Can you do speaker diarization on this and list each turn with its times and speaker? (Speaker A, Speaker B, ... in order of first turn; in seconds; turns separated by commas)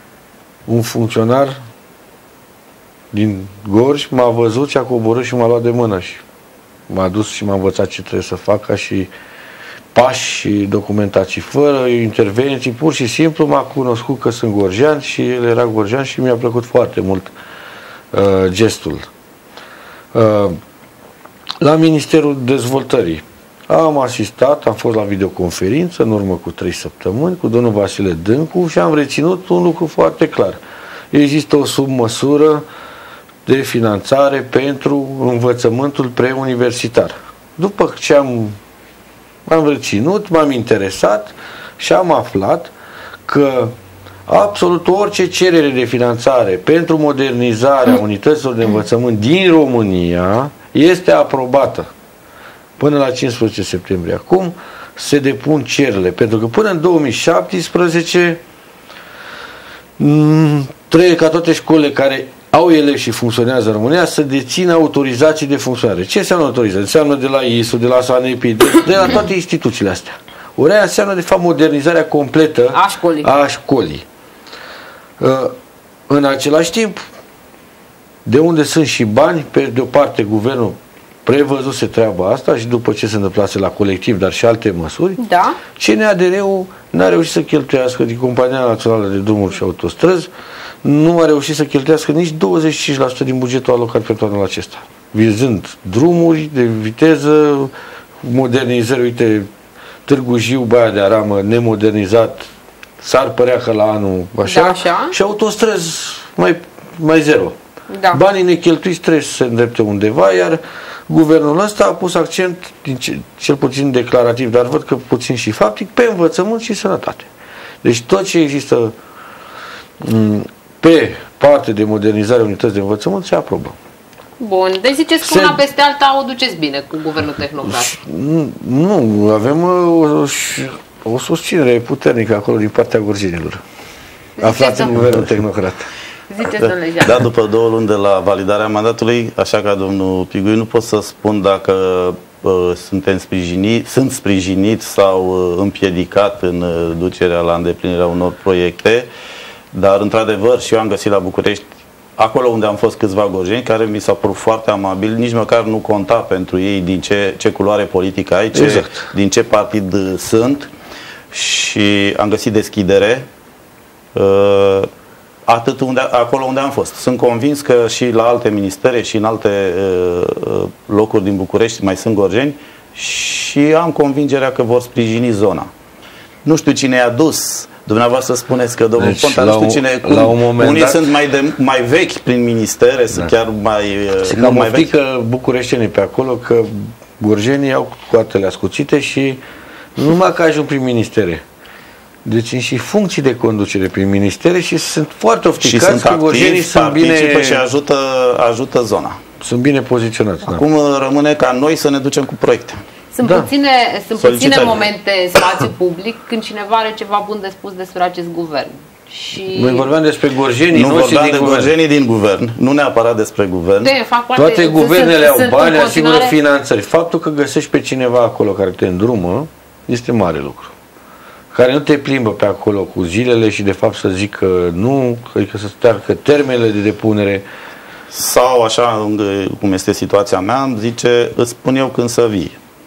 Speaker A: 0.7-1.6, Speaker A: 3.1-6.2, Speaker A: 6.9-9.1, Speaker A: 9.9-17.3, Speaker A: 18.1-19.1, Speaker A: 20.1-20.6, Speaker A: 21.6-30.6, Speaker A: 31.1-32.6, Speaker A: 33.5-38.6, Speaker A: 39.5-42.7, Speaker A: 43.3-43.7, Speaker A: 44.3-51.9, Speaker A: 52.8-58.4, Speaker A: 60.0-74.0, Speaker B: 72.7-73.3, Speaker A: 75.2-75.5, Speaker A: 76.1-77.1, Speaker A: 78.2-85.2, Speaker B: 85.2-85.6, Speaker A: 85.7-90.3, Speaker A: 90.8-99.5, Speaker A: 100.1-102.5, Speaker A: 103.0-107.6, Speaker B: 104.5-105.2, Speaker B: 107.9-108.2, Speaker A: 108.1-117.3, Speaker A: 117.8-119.0, Speaker A: 120.0-123.8, Speaker B: 124.4-128.0, Speaker A: 125.2-125.6, Speaker A: 127.6-133.6, Speaker B: 134.4-135.1, Speaker A: 134.4-135.9, Speaker B: 136.3-137.2, Speaker C: 136.6-149.1, Speaker C: 149.7-160.7, Speaker A: 158.5-159.1, Speaker C: 161.3-163.2, Speaker C: 164.2-164.9, Speaker C: 165.5-175.7, Speaker C: 176.4-184.9, Speaker A: 179.0-181.1, Speaker A: 184.2-189.4, Speaker A: 190.0-191.4, Speaker A: 192.2-197.6, Speaker C: 195.6-199.2, Speaker A: 199.4-200.6, Speaker C: 200.4-202.8, Speaker B: 203.1-209.9, Speaker A: 203.2-203.5, Speaker C: 204.2-204.9, Speaker A: 209.5-211.7, Speaker C: 210.7-213.9, Speaker B: 213.8-216.4, Speaker A: 214.3-220.7, Speaker A: 221.5-227.5, Speaker C: 228.1-232.6